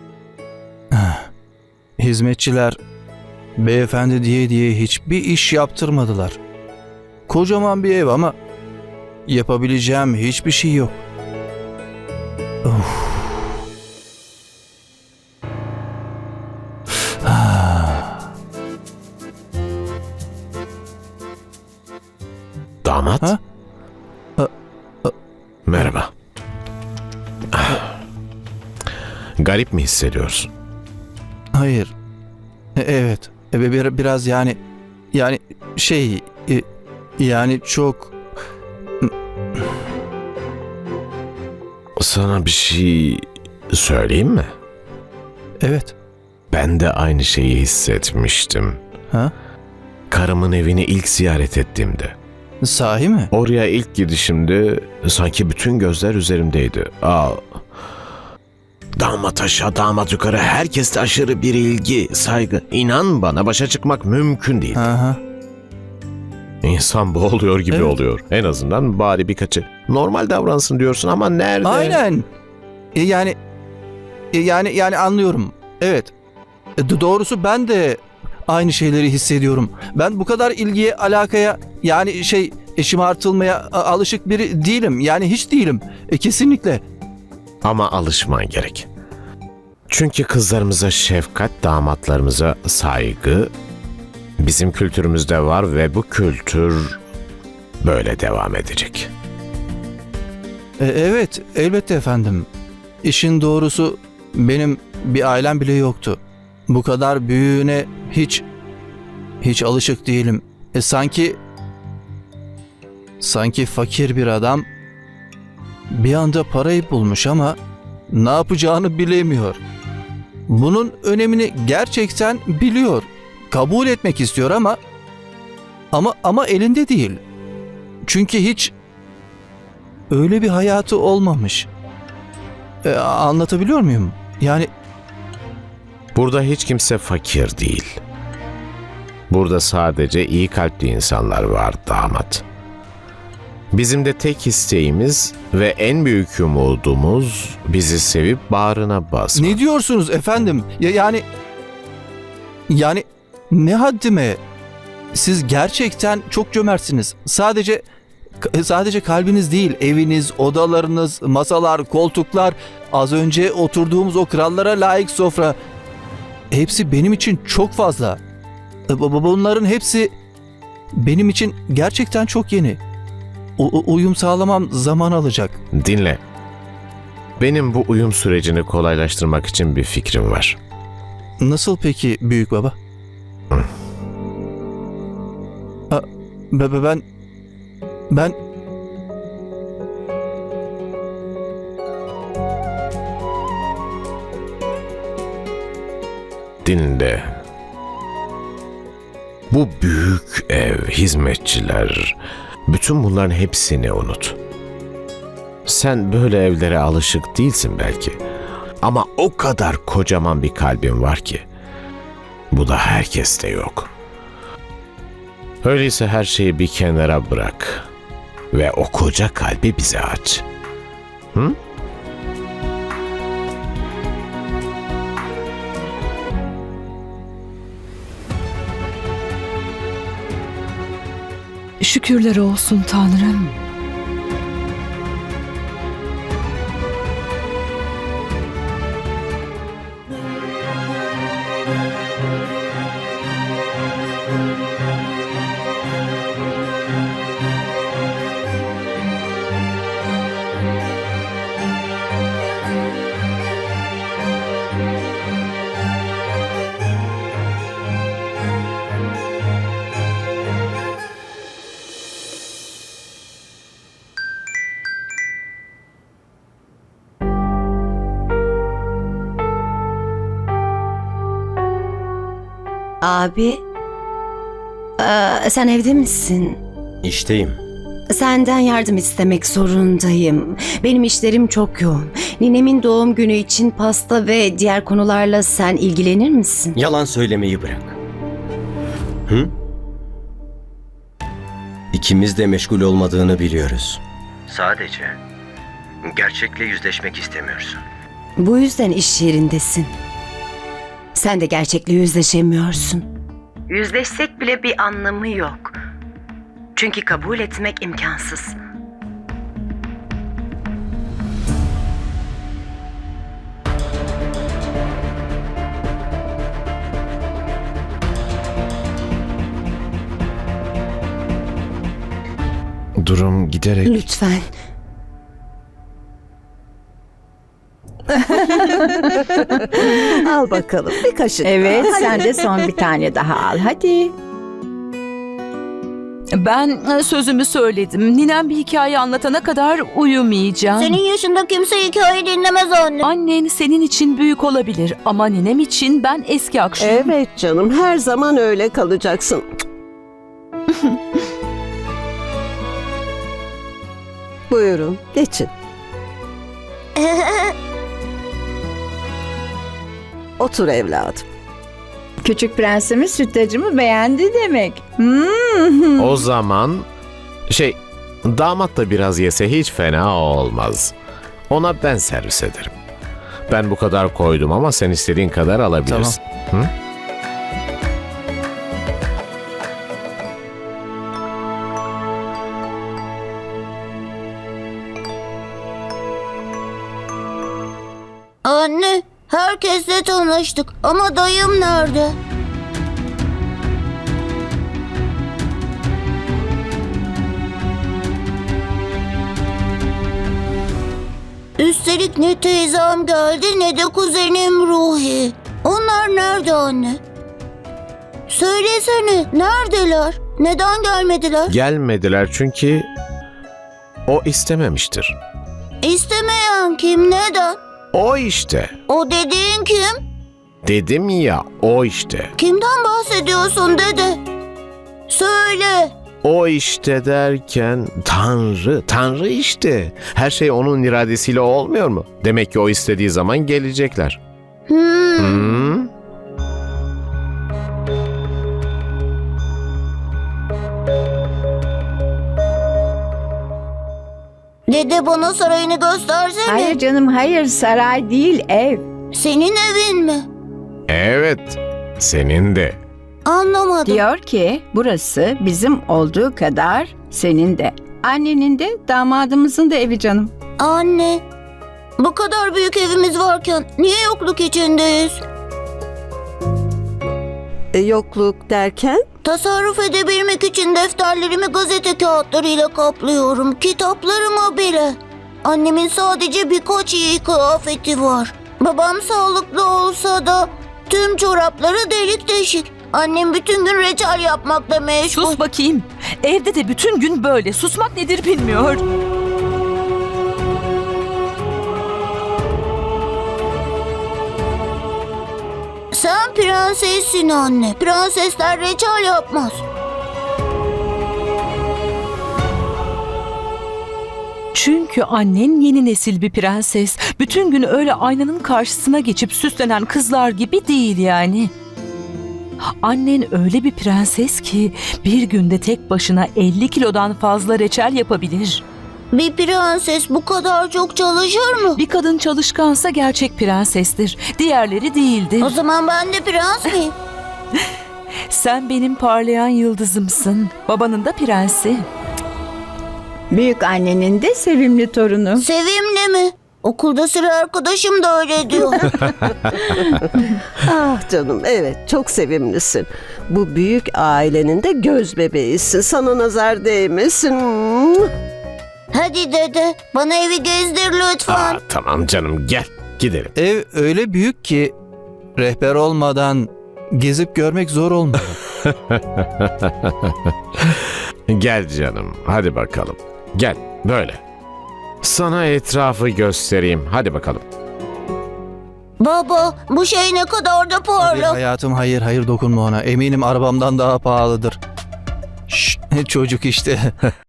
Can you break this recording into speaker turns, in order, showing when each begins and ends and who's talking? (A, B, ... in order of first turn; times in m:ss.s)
0:00.9-0:01.3 A
0:02.0-0:02.8 A
0:03.6-0:06.4 A
0:07.3-0:08.4 A
0:09.3-0:11.0 A
0:12.6-0:13.4 A
0:17.2-0:18.2 A
0:22.8-0:23.3 B
0:25.7-0:26.1 B
0:27.5-0:27.8 B
0:29.4-0:30.5 B
0:31.5-0:31.9 A
0:32.8-0:34.6 A
0:35.1-0:36.6 A
0:37.2-0:38.2 A
0:42.0-0:44.5 B
0:45.6-0:45.9 A
0:46.5-0:48.8 B
0:50.1-0:52.2 B
0:52.6-0:53.3 A
0:53.3-0:57.4 B
0:59.0-1:04.8 B
1:04.7-1:05.2 A
1:06.6-1:12.0 B
1:11.6-1:12.3 A
1:13.0-1:13.4 A
1:14.3-1:16.1 A
1:16.8-1:26.8 A
1:27.6-1:28.9 B
1:29.9-1:33.5 B
1:34.4-1:37.0 B
1:37.8-1:39.1 B
1:40.8-1:42.5 A
1:43.0-1:48.4 A
1:49.4-1:51.4 A
1:53.2-1:54.7 A
1:55.9-1:57.6 A
1:58.1-1:59.6 A
2:00.5-2:04.8 A
2:05.9-2:07.2 A
2:08.0-2:08.7 A
2:10.1-2:11.7 A
2:12.8-2:14.7 A
2:16.2-2:18.0 B
2:19.3-2:22.4 B
2:23.7-2:29.6 B
2:29.4-2:31.2 A
2:32.7-2:34.4 A
2:35.1-2:37.8 A
2:38.4-2:45.6 A
2:46.5-2:48.2 A
2:48.9-2:50.1 A
2:51.0-2:52.8 A
2:53.6-2:55.6 A
2:55.7-2:56.2 B
2:57.4-3:00.6 B
3:01.4-3:02.8 A
3:05.9-3:07.0 A
3:08.1-3:08.4 A
3:16.6-3:17.3 B
3:19.5-3:22.2 B
3:22.7-3:24.4 B
3:25.7-3:28.2 B
3:28.8-3:31.5 B
3:32.5-3:33.9 B
3:35.6-3:37.9 B
3:38.5-3:40.4 B
3:51.8-3:53.6 C
4:33.0-4:33.6 D
4:35.0-4:36.6 D
4:37.0-4:37.6 E
4:38.1-4:46.8 D
4:46.8-4:48.0 E
4:51.9-4:55.2 E
4:56.0-4:57.8 E
4:58.4-4:59.9 D
5:01.2-5:03.1 D
5:03.7-5:05.8 D
5:06.8-5:08.6 D
5:23.0-5:23.9 B
5:23.9-5:24.5 D
5:29.5-5:32.3 F
5:31.4-5:34.1 G
5:36.3-5:41.0 C
5:40.8-5:43.1 H
5:43.0-5:47.2 C
5:46.8-5:49.5 F
5:54.5-5:55.5 F
5:57.0-5:57.5 H
6:00.4-6:01.2 F
6:02.2-6:06.2 G
6:06.0-6:06.9 B
6:07.5-6:10.9 B
6:11.5-6:12.7 B
6:13.5-6:16.7 B
6:15.9-6:16.2 A
6:28.4-6:32.2 H
6:41.6-6:47.0 H
6:48.3-6:51.5 H
6:51.5-6:52.9 B
6:54.1-6:55.2 B
6:55.8-6:57.6 H
6:57.9-6:58.8 B
6:58.9-7:00.0 H
7:00.6-7:02.3 B
7:02.4-7:04.2 H
7:05.1-7:05.9 H
7:06.2-7:14.2 B
7:14.7-7:15.7 H
7:15.2-7:15.9 B
7:24.7-7:26.8 H
7:26.4-7:28.8 G
7:29.1-7:30.3 H
7:30.9-7:32.8 B
7:33.2-7:34.0 H
7:33.8-7:40.3 G
7:40.6-7:41.2 H
7:42.0-7:45.2 H
7:47.7-7:49.0 F
7:49.2-8:05.4 H
8:05.1-8:08.8 C
8:15.9-8:19.6 H
8:24.6-8:31.5 C
8:32.8-8:38.6 C
8:39.1-8:41.8 H
8:41.8-8:45.6 C
8:45.4-8:47.0 H
8:48.3-8:51.9 C
8:53.3-8:55.4 G
8:55.4-8:58.9 H
9:00.6-9:08.1 F
9:08.9-9:11.6 H
9:11.3-9:13.3 B
9:13.4-9:14.7 A
9:15.4-9:18.4 A
9:18.6-9:20.8 B
9:21.3-9:24.2 B
9:25.0-9:27.4 B
9:29.0-9:31.4 H
9:31.0-9:34.6 A
9:35.5-9:37.0 A